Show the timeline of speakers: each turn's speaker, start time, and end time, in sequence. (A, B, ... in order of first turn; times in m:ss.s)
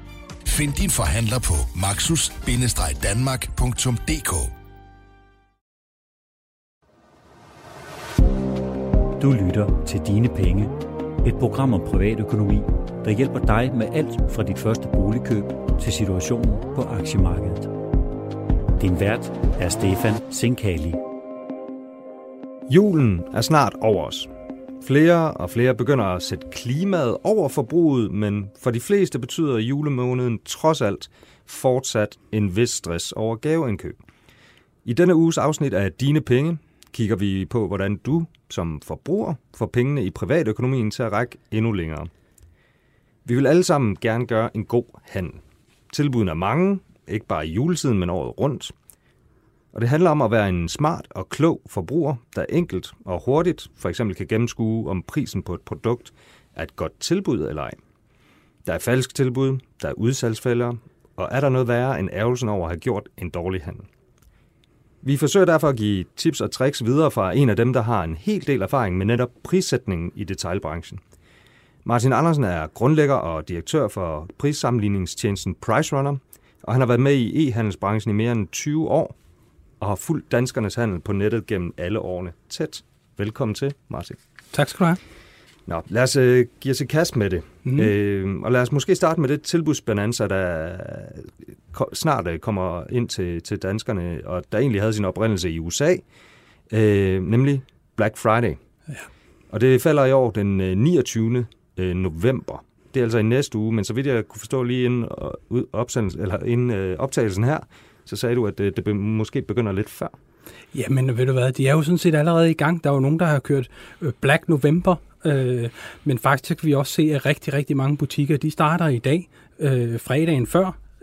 0:00.4-0:04.5 A
0:09.2-0:17.7 B
0:18.8-0:21.0 B
0:22.7-0:24.3 C
0:24.8-0:34.0 C
0:34.8-0:42.1 C
0:43.2-0:48.7 C
0:49.7-0:57.8 C
0:58.6-1:03.9 C
1:05.0-1:11.0 C
1:11.8-1:19.2 C
1:19.8-1:24.2 C
1:24.5-1:25.0 D
1:25.7-1:36.0 C
1:36.7-1:38.6 C
1:39.5-1:50.2 C
1:50.7-2:00.8 D